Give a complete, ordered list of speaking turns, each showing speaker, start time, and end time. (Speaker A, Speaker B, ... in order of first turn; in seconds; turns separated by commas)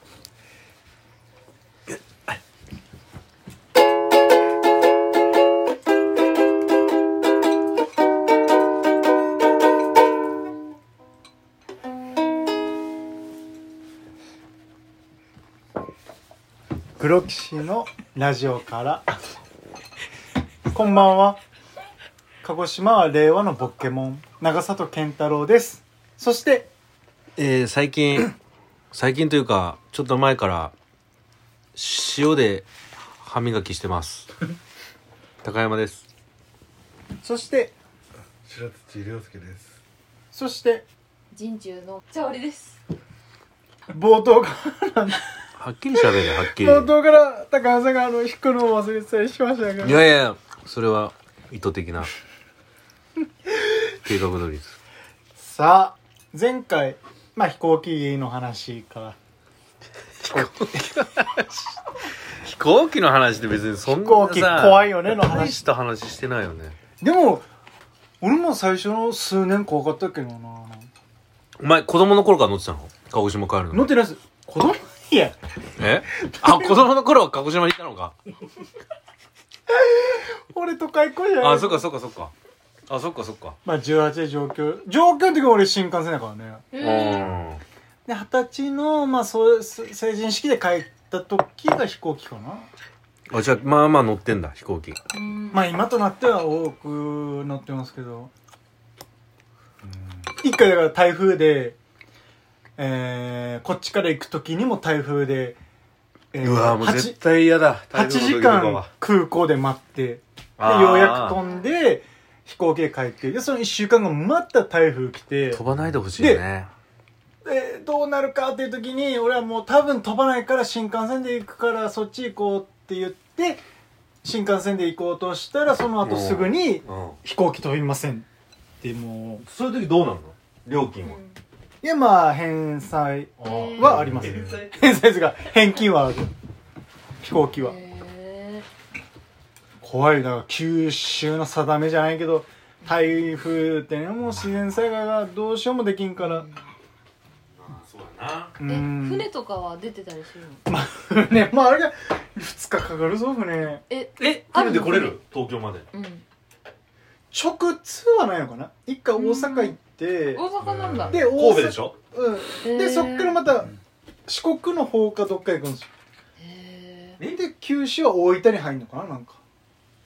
Speaker A: 1.9-2.4, Speaker B: 17.0-19.1, Speaker B: 20.7-21.4, Speaker B: 22.4-26.7, Speaker A: 27.4-28.3, Speaker A: 28.9-30.7, Speaker A: 31.7-32.7, Speaker A: 33.2-34.3, Speaker A: 35.4-36.0, Speaker B: 37.2-37.7, Speaker C: 38.5-39.7, Speaker B: 40.3-40.9, Speaker D: 41.3-42.8, Speaker B: 43.9-45.3, Speaker A: 45.5-46.9, Speaker B: 45.9-50.0, Speaker A: 49.8-52.1, Speaker A: 54.0-54.8, Speaker B: 55.4-59.2, Speaker A: 60.2-61.5, Speaker A: 62.3-66.8, Speaker B: 63.8-65.6, Speaker B: 67.0-67.5, Speaker B: 68.2-70.9, Speaker A: 71.6-73.9, Speaker B: 73.7-75.3, Speaker A: 75.8-78.2, Speaker B: 76.2-76.8, Speaker B: 79.7-81.9, Speaker A: 81.4-82.3, Speaker A: 82.9-83.6, Speaker B: 83.7-86.7, Speaker D: 86.7-87.3, Speaker A: 86.8-87.6, Speaker B: 88.1-92.7, Speaker A: 93.3-95.0, Speaker D: 95.1-95.7, Speaker B: 95.5-98.3, Speaker B: 100.4-101.8, Speaker B: 102.8-105.6, Speaker B: 106.3-107.2, Speaker A: 106.4-108.9, Speaker B: 107.9-115.6, Speaker A: 110.6-111.4, Speaker A: 115.5-116.7, Speaker B: 116.2-116.4, Speaker B: 117.5-123.6, Speaker B: 124.2-128.2, Speaker A: 126.0-127.2, Speaker B: 128.8-129.4, Speaker A: 129.4-131.2, Speaker D: 131.0-131.4, Speaker B: 131.8-136.3, Speaker D: 133.4-134.0, Speaker C: 133.8-134.6, Speaker B: 137.2-137.8, Speaker D: 137.5-138.7, Speaker B: 139.8-146.5, Speaker D: 146.2-146.7, Speaker A: 147.6-148.6, Speaker B: 148.6-149.3, Speaker D: 148.6-150.6, Speaker B: 150.7-153.8, Speaker D: 153.9-155.2, Speaker A: 154.2-155.9, Speaker D: 155.9-156.2, Speaker B: 157.3-160.4, Speaker D: 159.2-159.8, Speaker D: 160.3-161.2, Speaker C: 160.6-161.3, Speaker B: 161.0-163.8, Speaker A: 161.2-162.0, Speaker D: 162.6-163.4, Speaker B: 164.3-165.9, Speaker D: 166.4-167.2, Speaker B: 167.3-169.4